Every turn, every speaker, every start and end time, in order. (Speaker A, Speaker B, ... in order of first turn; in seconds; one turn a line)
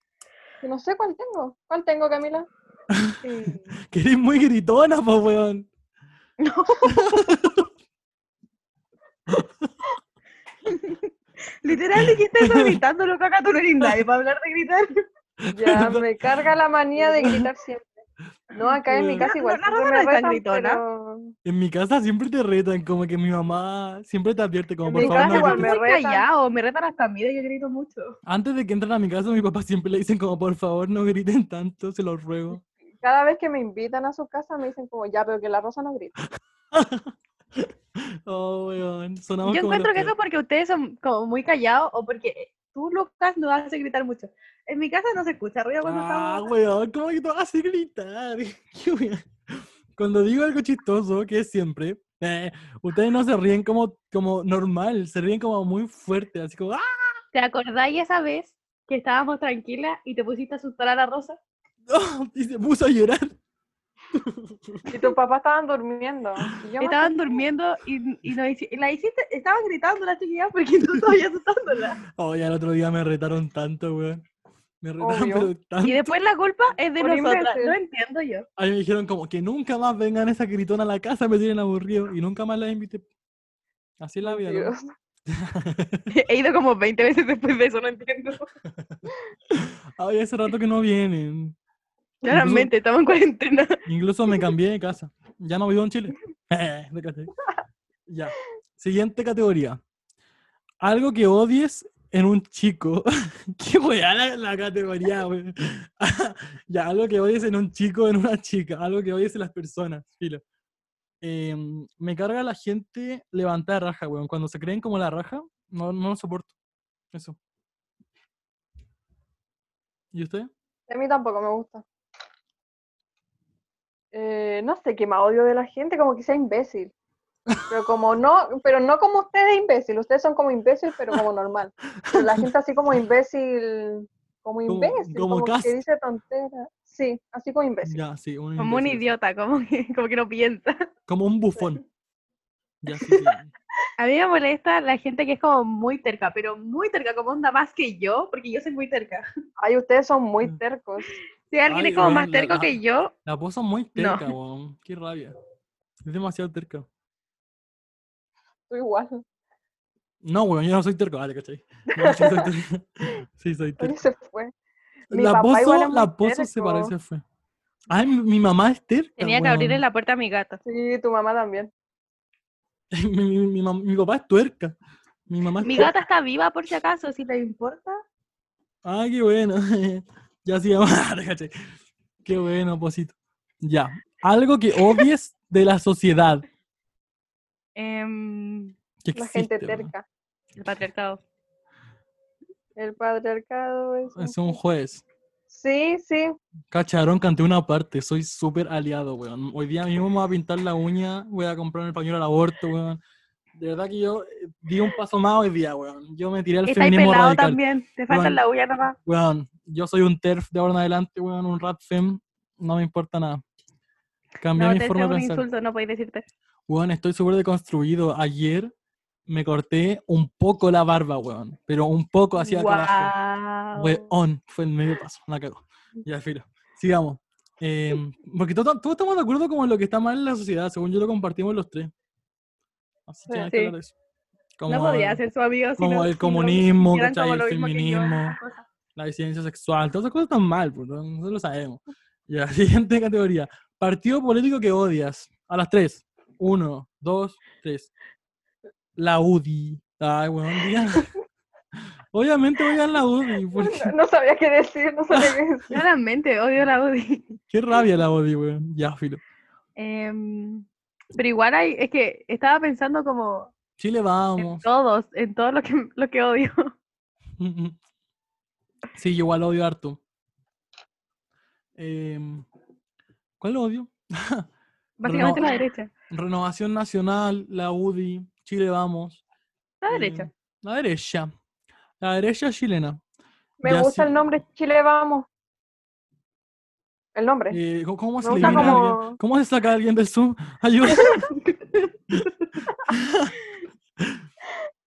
Speaker A: 0.6-2.5
Speaker B: 2.9-5.7
Speaker C: 3.2-3.7
Speaker C: 6.4-7.2
Speaker B: 6.9-7.7
Speaker B: 9.3-9.7
Speaker C: 10.7-11.1
Speaker C: 11.6-15.0
Speaker B: 11.9-12.8
Speaker B: 15.4-16.1
Speaker A: 15.5-18.0
Speaker A: 18.5-21.3
Speaker B: 18.9-19.3
Speaker C: 19.2-20.8
Speaker B: 21.4-25.7
Speaker A: 24.8-26.2
Speaker C: 25.0-28.1
Speaker B: 28.2-32.6
Speaker A: 33.0-36.1
Speaker B: 36.7-37.1
Speaker B: 38.2-40.1
Speaker C: 39.4-46.5
Speaker B: 45.8-57.2
Speaker C: 57.3-61.4
Speaker B: 61.9-63.4
Speaker B: 64.1-64.9
Speaker A: 64.9-67.4
Speaker C: 66.8-72.0
Speaker B: 72.2-74.2
Speaker B: 74.8-76.1
Speaker A: 75.0-75.5
Speaker C: 75.8-78.5
Speaker A: 77.0-77.7
Speaker B: 78.6-83.1
Speaker B: 84.0-84.7
Speaker A: 84.2-84.8
Speaker B: 85.3-86.1
Speaker C: 86.1-88.5
Speaker B: 88.7-91.5
Speaker C: 92.2-93.8
Speaker B: 92.3-92.7
Speaker B: 93.8-97.3
Speaker B: 98.1-99.8
Speaker B: 100.8-110.4
Speaker B: 111.2-116.5
Speaker B: 120.1-120.5
Speaker A: 120.9-121.8
Speaker A: 124.1-126.9
Speaker A: 127.7-138.0
Speaker B: 132.0-132.5
Speaker B: 134.7-135.8
Speaker B: 137.8-139.1
Speaker C: 138.6-140.9
Speaker B: 141.1-141.8
Speaker B: 142.8-143.5
Speaker C: 144.0-149.2
Speaker A: 149.6-151.2
Speaker C: 151.5-153.1
Speaker B: 151.7-155.3
Speaker C: 153.9-154.3
Speaker B: 156.0-156.9
Speaker A: 158.7-159.2
Speaker B: 160.2-164.1
Speaker A: 161.9-162.5
Speaker A: 163.8-164.5
Speaker B: 165.1-167.2
Speaker A: 165.1-166.9
Speaker B: 167.9-169.8
Speaker C: 169.2-170.6
Speaker A: 170.6-171.7
Speaker B: 172.9-174.8
Speaker B: 175.3-175.9
Speaker C: 175.6-178.0
Speaker B: 178.8-181.5
Speaker B: 182.2-186.4
Speaker C: 187.8-188.7
Speaker B: 189.0-189.9
Speaker A: 189.2-190.0
Speaker C: 190.6-191.2
Speaker A: 192.8-194.6
Speaker B: 194.1-195.0
Speaker A: 195.5-196.3
Speaker B: 196.7-203.0
Speaker B: 203.6-208.4
Speaker C: 206.7-208.9
Speaker B: 209.0-213.4
Speaker B: 214.4-215.4
Speaker C: 214.6-216.2
Speaker B: 216.7-218.7
Speaker B: 219.3-223.1
Speaker C: 222.4-224.1
Speaker B: 223.7-231.9
Speaker B: 233.1-233.9
Speaker A: 233.3-233.7
Speaker B: 234.6-235.2
Speaker C: 234.7-238.7
Speaker B: 235.8-238.3
Speaker B: 238.9-247.9
Speaker B: 249.0-251.1
Speaker B: 252.1-253.9
Speaker A: 253.5-255.7
Speaker C: 255.7-257.3
Speaker B: 257.5-259.2
Speaker C: 259.8-263.5
Speaker B: 263.8-264.6
Speaker C: 264.4-266.7
Speaker B: 267.4-267.8
Speaker B: 268.9-270.0
Speaker B: 271.8-272.4
Speaker B: 273.4-274.5
Speaker C: 275.0-275.9
Speaker B: 275.0-275.4
Speaker B: 276.1-279.2
Speaker C: 279.8-280.3
Speaker B: 279.9-281.3
Speaker B: 282.0-283.0
Speaker A: 283.6-285.3
Speaker B: 283.6-284.2
Speaker A: 287.1-287.6
Speaker B: 287.5-291.3
Speaker A: 288.2-289.2
Speaker C: 288.4-288.8
Speaker B: 292.1-293.4